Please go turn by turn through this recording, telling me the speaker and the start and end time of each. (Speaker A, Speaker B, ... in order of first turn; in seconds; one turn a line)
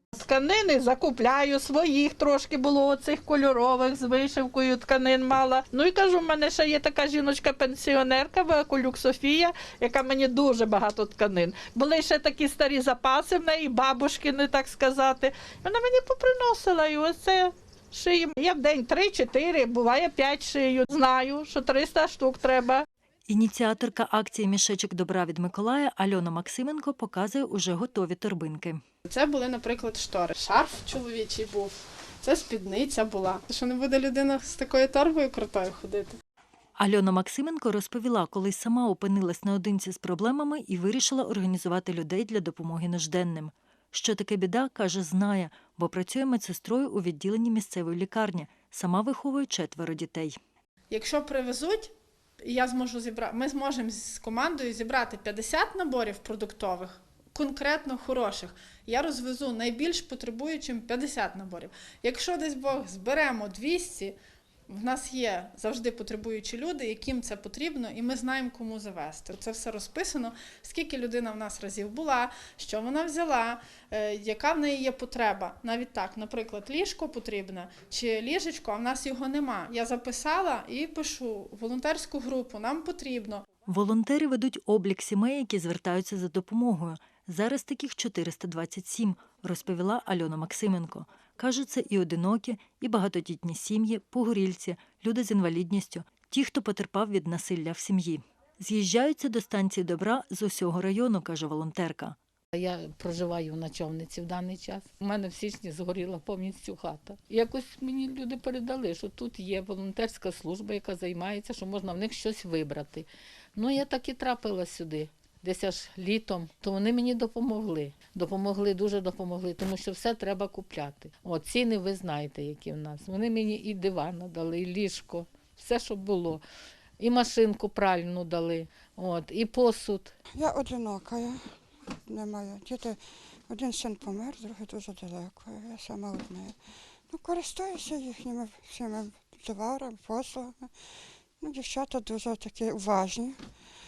Speaker A: 0.1-22.8
Speaker B: 23.3-28.8
Speaker C: 29.1-36.2
Speaker B: 36.8-50.4
Speaker C: 50.9-51.9
Speaker C: 52.4-64.1
Speaker C: 64.7-83.5
Speaker B: 83.7-102.2
Speaker D: 102.5-126.4
Speaker D: 127.0-130.1
Speaker E: 130.3-131.5
Speaker E: 132.1-136.6
Speaker E: 137.1-140.7
Speaker E: 141.4-143.4